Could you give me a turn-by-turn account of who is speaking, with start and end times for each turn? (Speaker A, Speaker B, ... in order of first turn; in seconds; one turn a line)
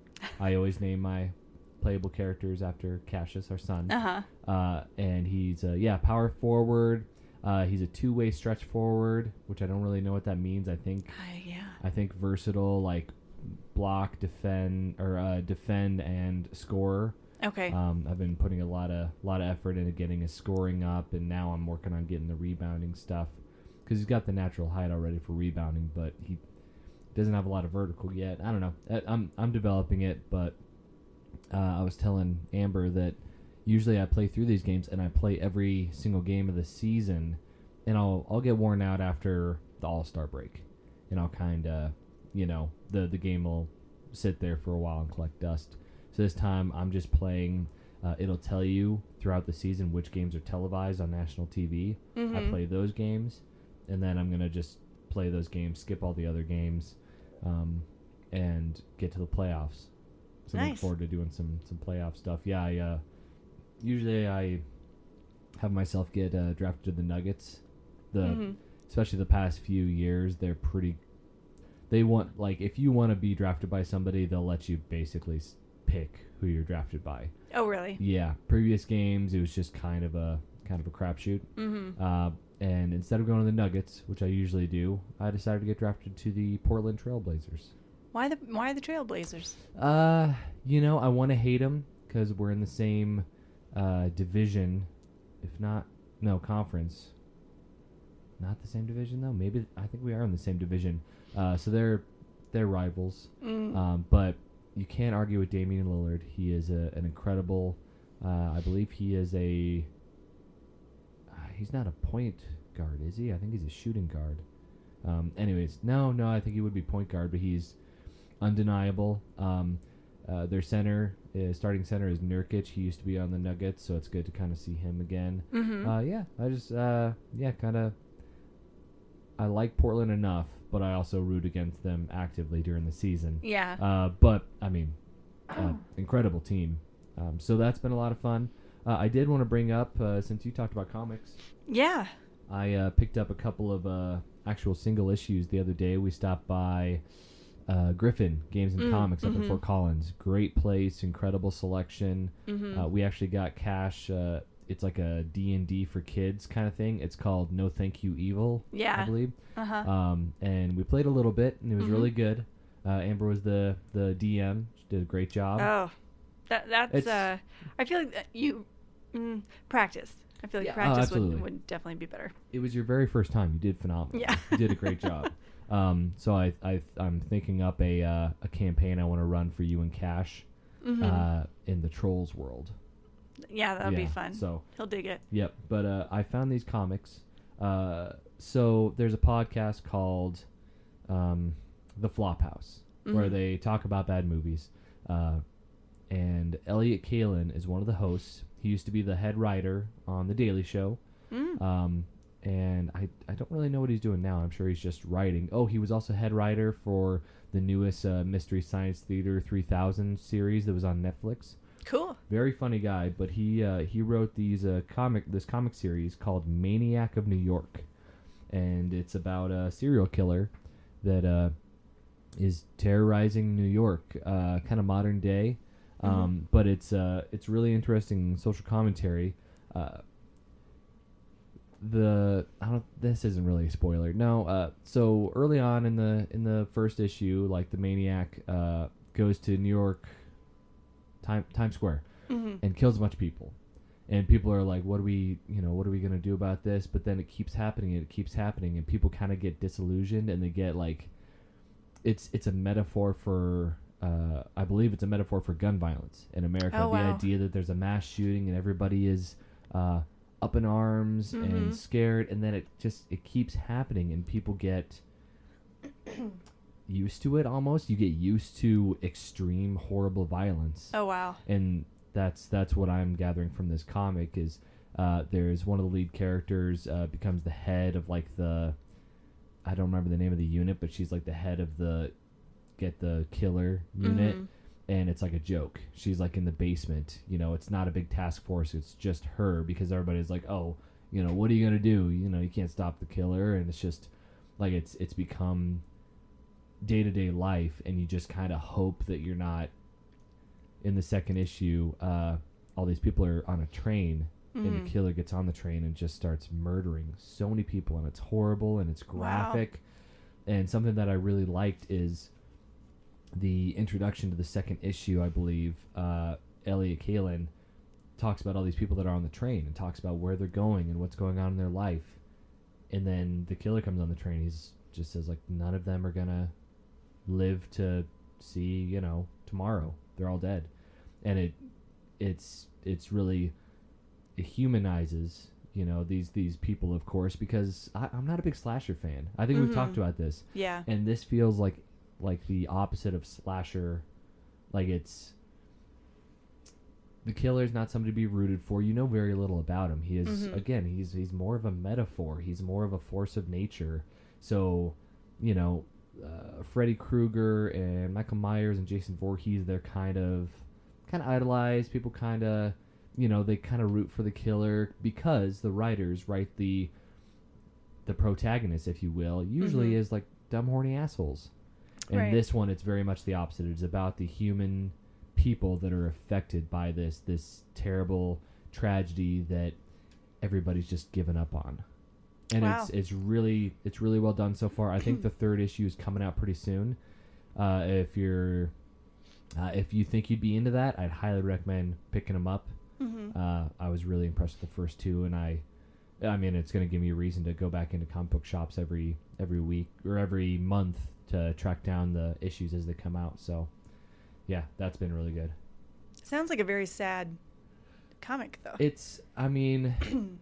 Speaker A: 0.4-11.2
Speaker B: 3.9-4.2
Speaker B: 11.1-11.8
Speaker A: 11.8-17.2
Speaker B: 17.4-17.8
Speaker A: 17.7-26.4
Speaker A: 27.1-30.6
Speaker A: 31.5-59.9
Speaker B: 52.2-52.6
Speaker A: 60.5-63.0
Speaker B: 60.5-60.9
Speaker A: 63.8-64.6
Speaker A: 65.6-71.0
Speaker B: 68.2-68.6
Speaker A: 71.9-77.3
Speaker B: 77.5-78.0
Speaker A: 78.0-87.7
Speaker B: 81.6-82.0
Speaker B: 88.1-89.6
Speaker A: 89.7-94.9
Speaker A: 95.4-97.1
Speaker A: 98.4-109.9
Speaker B: 103.4-103.8
Speaker A: 111.3-114.4
Speaker A: 115.0-117.8
Speaker A: 118.4-127.9
Speaker B: 125.5-125.9
Speaker A: 129.4-134.9
Speaker B: 133.4-133.8
Speaker A: 135.5-141.4
Speaker B: 141.7-142.1
Speaker A: 142.5-147.0
Speaker A: 147.7-165.7
Speaker B: 148.8-149.6
Speaker B: 152.5-152.8
Speaker B: 158.7-159.9
Speaker B: 161.8-162.1
Speaker B: 165.6-165.9
Speaker B: 166.5-172.3
Speaker A: 166.9-167.3
Speaker A: 170.6-171.5
Speaker A: 172.5-180.4
Speaker B: 174.1-175.2
Speaker B: 180.8-181.3
Speaker A: 181.0-182.8
Speaker B: 183.5-185.2
Speaker A: 183.8-184.7
Speaker A: 185.3-190.5
Speaker A: 191.1-195.4
Speaker B: 193.1-193.4
Speaker A: 196.1-201.0
Speaker B: 201.3-201.6
Speaker A: 201.6-211.6
Speaker B: 211.8-212.2
Speaker A: 212.3-217.9
Speaker A: 218.5-221.5
Speaker A: 222.4-230.0
Speaker B: 226.0-226.3
Speaker A: 231.8-240.2
Speaker A: 241.2-243.6
Speaker B: 242.3-242.6
Speaker A: 244.1-251.1
Speaker A: 252.0-265.0
Speaker B: 256.7-257.3
Speaker B: 261.3-261.8
Speaker A: 266.9-270.9
Speaker B: 270.9-271.4
Speaker A: 271.4-278.8
Speaker A: 279.6-282.1
Speaker A: 282.8-295.8
Speaker B: 284.0-284.5
Speaker A: 296.8-299.7
Speaker A: 300.8-309.8
Speaker B: 304.5-304.9
Speaker B: 309.1-309.6
Speaker A: 310.4-312.3
Speaker A: 313.3-317.5
Speaker A: 318.2-322.2
Speaker A: 322.9-326.5
Speaker A: 327.3-330.7
Speaker A: 331.2-331.6
Speaker A: 332.2-333.5
Speaker A: 334.4-344.1
Speaker B: 339.5-340.0
Speaker B: 340.5-340.9
Speaker A: 344.7-345.3
Speaker A: 347.2-366.9
Speaker B: 350.2-350.6
Speaker A: 368.1-371.5
Speaker B: 369.6-370.0
Speaker A: 372.1-379.8
Speaker B: 372.1-372.4
Speaker A: 380.4-381.8
Speaker A: 382.5-387.0
Speaker B: 382.6-382.9
Speaker A: 387.6-388.7
Speaker A: 389.6-392.7
Speaker B: 393.0-393.3
Speaker A: 393.3-395.6
Speaker A: 396.2-403.7
Speaker A: 404.5-405.6
Speaker B: 406.2-407.4
Speaker B: 408.2-408.8
Speaker A: 408.8-410.1